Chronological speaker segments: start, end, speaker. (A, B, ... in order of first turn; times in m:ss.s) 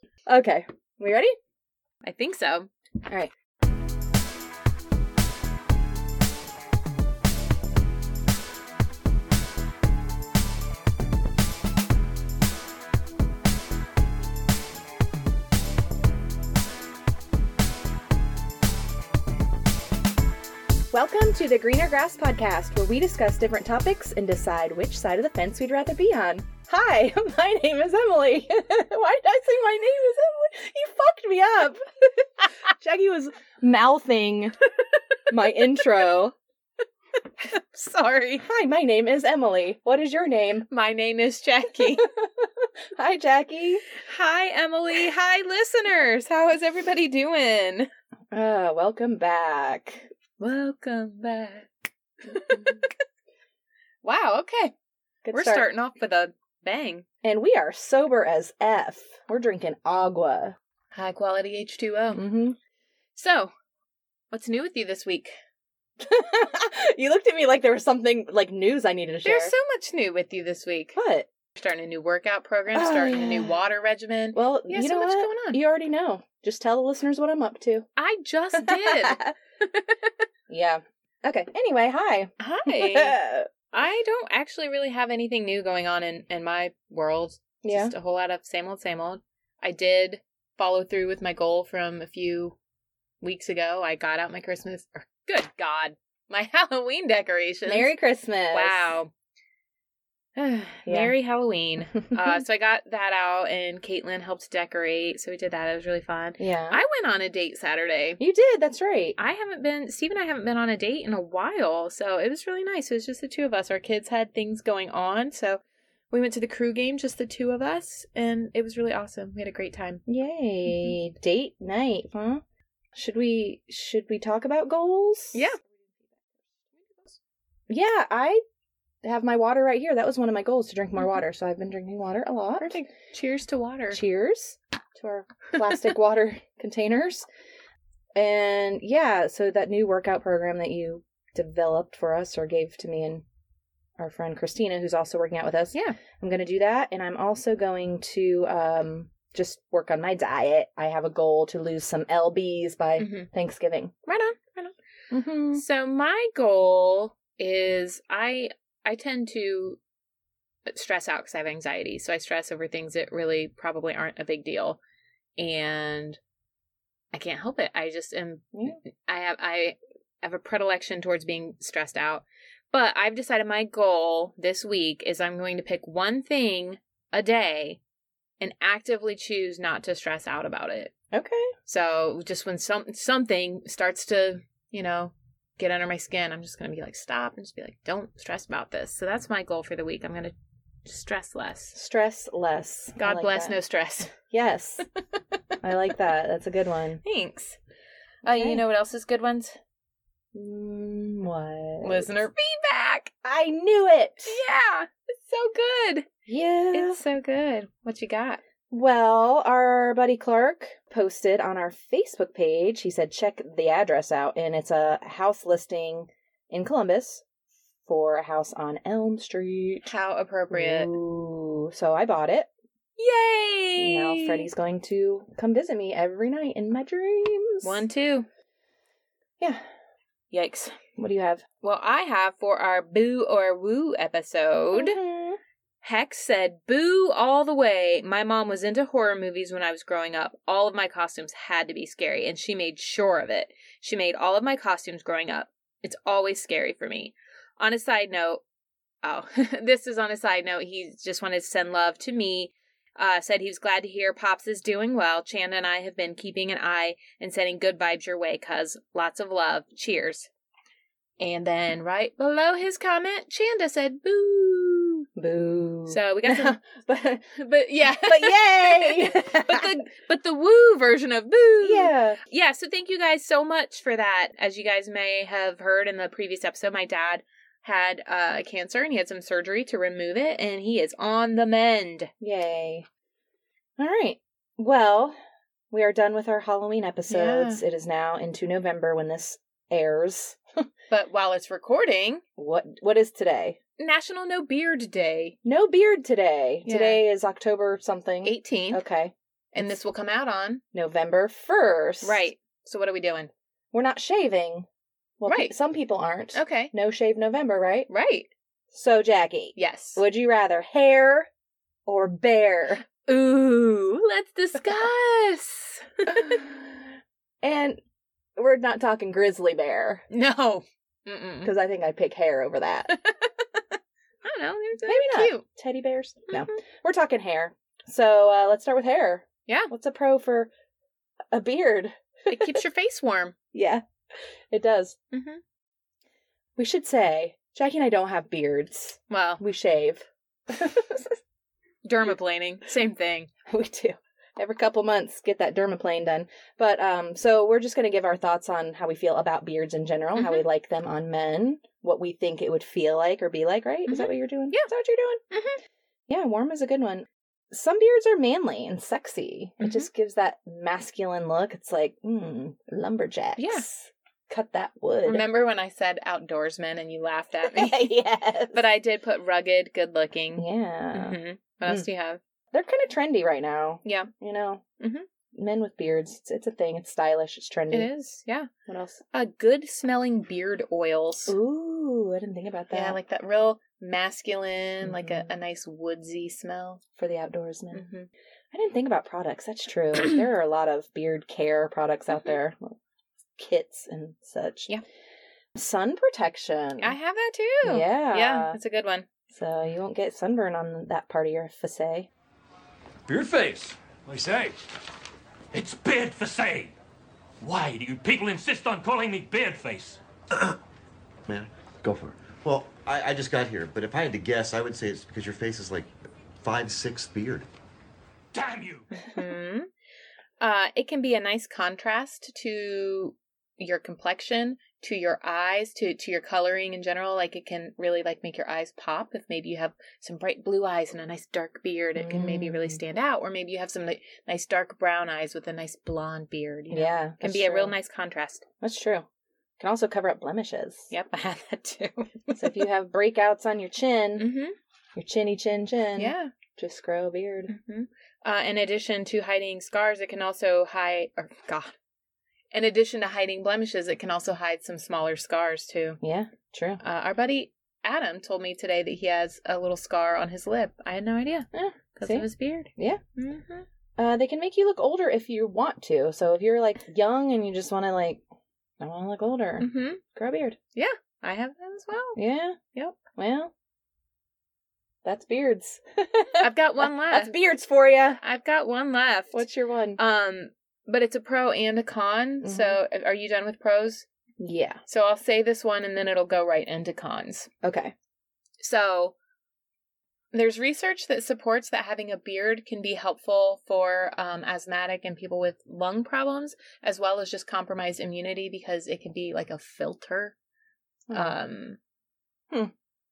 0:00.3-0:01.4 A
0:02.0-0:02.7 B
0:03.1-0:03.3 A
0:20.9-0:31.8 A
0:32.7-0:34.7 A
0:35.3-0:36.4 A
0:37.4-0:38.4 B
0:38.4-0:40.7 A
0:40.7-0:42.1 B
0:42.0-0:43.9 A
0:44.0-0:47.9 B
0:48.3-0:50.1 A
0:50.4-0:51.7 B
0:52.2-0:52.9 B
0:52.5-0:52.8 A
0:54.0-0:54.7 B
0:55.2-0:55.7 A
0:55.3-0:57.1 B
0:57.2-1:00.6 A
1:00.9-1:02.2 B
1:02.1-1:02.6 A
1:03.2-1:03.5 B
1:04.3-1:05.3 B
1:06.0-1:09.5 A
1:09.2-1:11.0 B
1:11.0-1:11.3 A
1:11.6-1:15.6 B
1:12.7-1:13.5 A
1:14.3-1:17.9 A
1:18.0-1:20.0 B
1:18.6-1:19.4 A
1:20.5-1:23.5 A
1:22.4-1:23.2 B
1:23.7-1:32.6 B
1:27.6-1:27.9 A
1:33.2-1:37.9 B
1:37.7-1:38.9 A
1:38.5-1:39.1 B
1:40.4-1:48.2 B
1:40.8-1:41.1 A
1:46.4-1:46.8 A
1:48.2-1:49.2 A
1:49.2-2:00.0 B
2:00.1-2:02.4 A
2:03.0-2:05.5 A
2:05.3-2:05.6 B
2:06.7-2:07.2 B
2:07.7-2:08.4 A
2:09.0-2:12.8 A
2:12.6-2:14.0 B
2:13.9-2:17.3 A
2:18.2-2:23.2 A
2:24.0-2:33.9 A
2:33.0-2:33.3 B
2:34.1-2:34.7 B
2:35.1-2:35.6 A
2:35.5-2:39.8 B
2:40.7-2:44.8 B
2:45.4-2:46.2 B
2:47.1-2:57.8 B
2:48.5-2:48.8 A
2:58.4-3:00.9 B
3:01.1-3:01.5 A
3:01.7-3:10.3 B
3:10.8-3:11.8 B
3:11.7-3:13.6 A
3:13.0-3:14.1 B
3:14.1-3:14.9 A
3:15.6-3:17.0 A
3:17.0-3:17.6 B
3:18.2-3:19.6 B
3:18.3-3:18.6 A
3:20.3-3:22.2 A
3:21.8-3:23.1 B
3:23.2-3:24.4 A
3:24.3-3:26.1 B
3:26.3-3:27.0 A
3:26.7-3:28.4 B
3:28.7-3:37.2 A
3:37.9-3:39.9 A
3:39.8-3:40.9 B
3:40.5-3:42.5 A
3:43.0-3:44.5 B
3:43.8-3:47.8 A
3:47.6-3:48.3 B
3:49.4-3:49.6 A
3:50.3-3:50.8 B
3:51.0-3:51.4 A
3:51.6-3:55.0 B
3:54.7-3:55.4 A
3:55.8-4:08.4 B
4:09.0-4:20.3 B
4:21.2-4:25.1 B
4:25.2-4:27.3 A
4:25.9-4:26.6 B
4:27.4-4:42.1 B
4:27.8-4:29.7 A
4:31.6-4:32.2 A
4:42.2-4:42.9 A
4:43.8-4:45.2 A
4:45.7-4:50.6 A
4:47.1-4:47.6 B
4:50.9-4:52.2 B
4:52.4-4:53.6 A
4:53.8-4:55.4 B
4:55.4-4:59.1 A
4:56.7-4:57.0 B
4:58.2-4:58.8 B
4:59.5-5:00.6 B
5:00.7-5:02.3 A
5:02.0-5:03.3 B
5:03.7-5:04.7 A
5:05.2-5:07.9 A
5:05.3-5:05.5 B
5:06.3-5:06.7 B
5:07.9-5:08.3 B
5:08.7-5:11.3 A
5:09.6-5:10.0 B
5:11.9-5:12.8 A
5:12.9-5:16.4 B
5:16.1-5:16.8 A
5:17.4-5:17.8 A
5:18.4-5:20.1 A
5:20.1-5:21.5 B
5:21.4-5:23.0 A
5:22.9-5:23.2 B
5:24.2-5:25.4 B
5:24.8-5:30.5 A
5:31.3-5:32.6 A
5:32.3-5:33.4 B
5:33.5-5:33.8 A
5:34.5-5:35.0 A
5:35.1-5:35.4 B
5:36.6-5:41.2 A
5:39.1-5:39.4 B
5:41.8-5:43.3 B
5:43.5-5:55.2 A
5:50.2-5:50.4 B
5:53.9-5:54.7 B
5:55.3-5:55.6 B
5:56.1-6:05.2 A
5:59.6-5:59.9 B
6:03.4-6:03.6 B
6:05.1-6:07.9 B
6:07.5-6:08.6 A
6:08.5-6:12.2 B
6:10.4-6:11.8 A
6:12.5-6:14.6 A
6:13.8-6:14.1 B
6:14.8-6:15.1 B
6:15.4-6:17.9 A
6:17.7-6:18.5 B
6:18.7-6:19.0 A
6:19.1-6:21.3 B
6:21.3-6:23.0 A
6:22.7-6:26.8 B
6:24.8-6:25.3 A
6:27.0-6:27.9 A
6:27.7-6:28.1 B
6:28.5-6:32.8 A
6:33.4-6:34.7 A
6:35.6-6:37.0 A
6:36.8-6:39.1 B
6:37.6-6:38.6 A
6:39.3-6:42.1 A
6:43.1-6:44.6 C
6:45.5-6:46.7 C
6:47.4-6:50.0 C
6:51.3-6:57.5 D
6:58.3-6:58.9 C
6:59.1-6:59.7 B
7:00.4-7:18.4 B
7:12.0-7:12.8 A
7:16.7-7:17.7 A
7:18.6-7:19.1 A
7:19.6-7:20.9 A
7:20.9-7:22.6 B
7:22.3-7:24.3 A
7:24.2-7:24.6 B
7:25.0-7:27.5 A
7:26.0-7:26.3 B
7:27.5-7:31.7 B
7:32.5-7:36.0 B
7:36.0-7:36.8 A
7:36.8-7:43.7 B
7:41.5-7:43.0 A
7:44.0-7:48.2 A
7:48.8-7:50.6 A
7:49.6-7:50.0 B
7:50.8-7:52.2 B
7:52.2-7:53.5 A
7:55.0-7:58.2 A
7:56.4-7:57.3 B
7:58.2-7:59.4 B
7:59.3-8:00.0 A
8:00.0-8:04.0 B
8:02.4-8:02.8 A
8:04.4-8:04.8 A
8:04.9-8:07.5 B
8:07.6-8:07.9 A
8:08.6-8:09.1 B
8:10.3-8:20.4 B
8:21.1-8:21.4 A
8:21.1-8:21.8 B